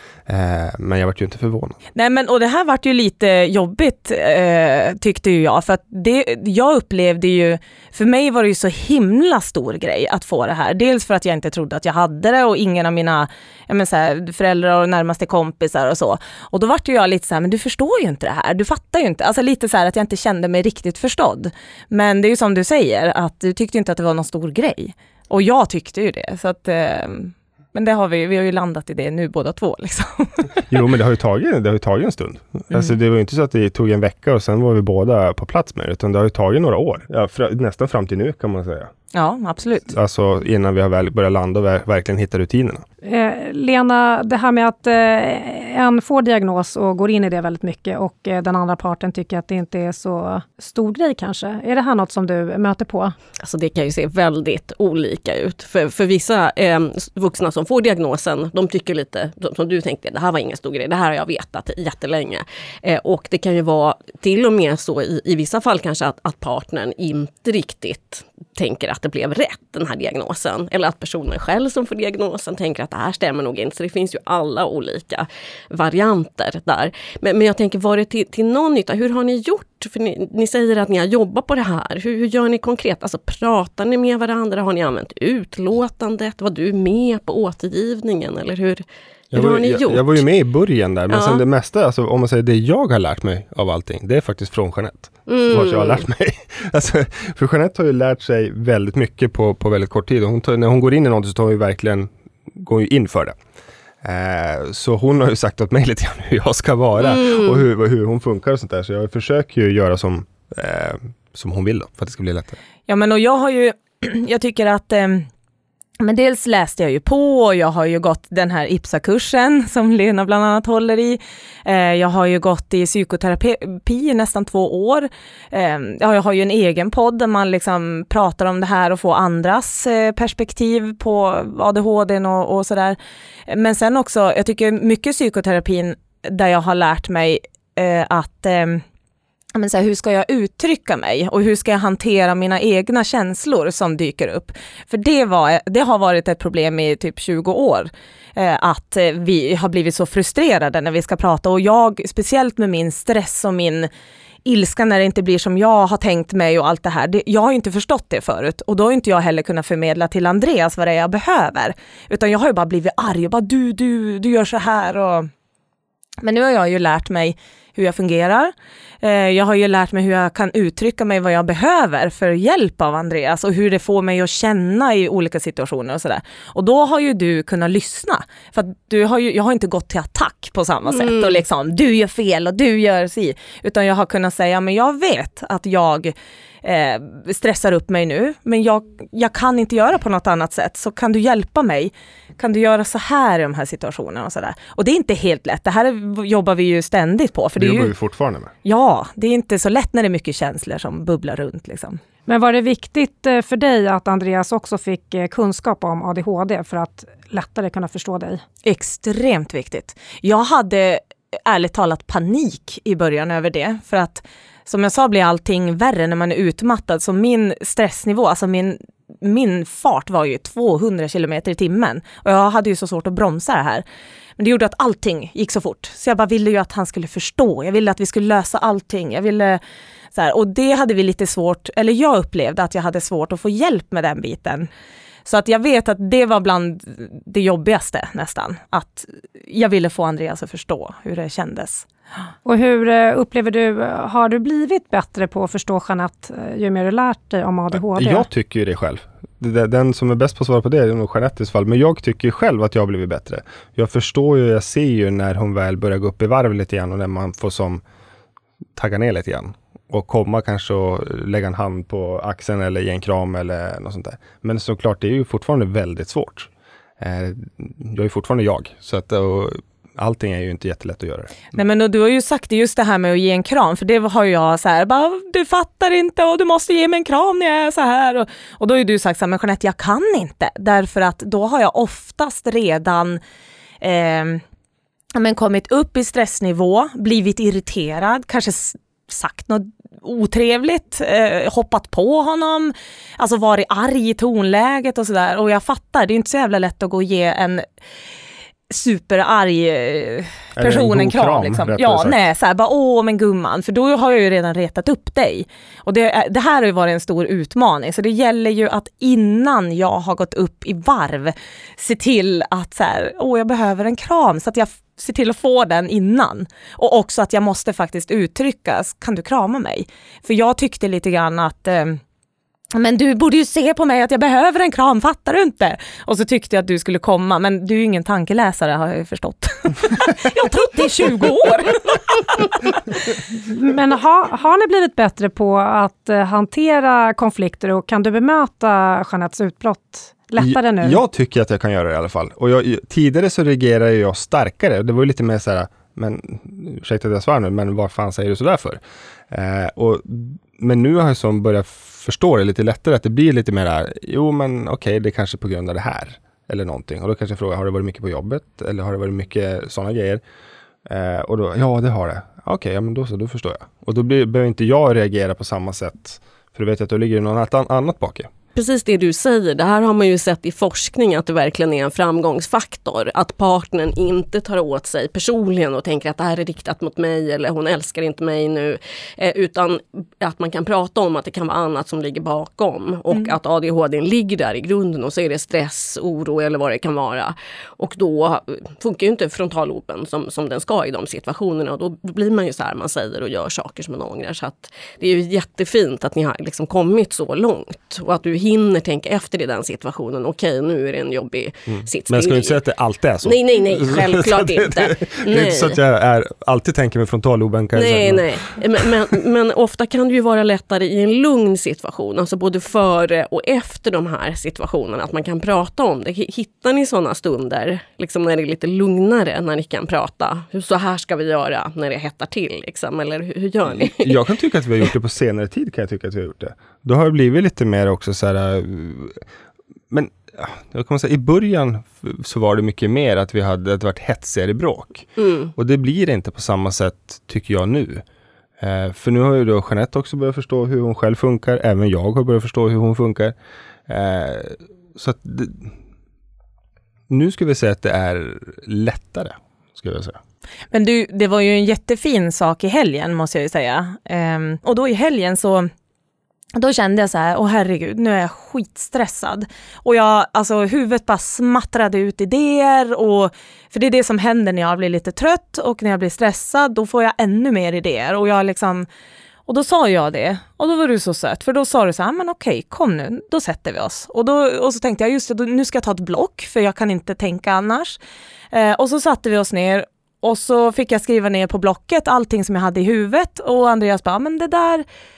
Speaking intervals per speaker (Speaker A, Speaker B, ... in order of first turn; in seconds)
Speaker A: 0.3-1.8, 30.7-38.9, 39.9-42.8, 89.3-103.3, 104.0-112.6, 197.6-198.5, 247.7-257.8, 258.8-271.5, 300.6-302.2, 340.4-360.2, 360.9-368.3, 401.7-408.4, 423.7-429.2, 429.9-438.0, 438.6-443.3, 443.9-445.7, 447.1-450.2
Speaker B: 1.9-30.6, 39.1-39.9, 112.9-115.3, 116.0-138.8, 139.5-153.9, 154.4-165.3, 166.2-197.9, 198.6-202.0, 208.6-223.8, 224.4-229.6, 230.1-234.7, 235.2-241.8, 271.5-283.2, 283.8-284.4, 285.1-297.6, 298.7-322.0, 322.7-332.7, 383.1-383.4, 450.7-455.7, 456.5-468.9, 469.5-478.0, 478.5-484.8
Speaker C: 43.0-53.1, 202.3-208.4, 242.4-248.3, 333.4-341.0
Speaker D: 53.4-90.2, 91.1-91.4, 95.3-96.0, 107.0-107.6, 180.9-181.4, 368.5-402.6, 403.2-405.8, 407.8-424.1, 435.2-435.5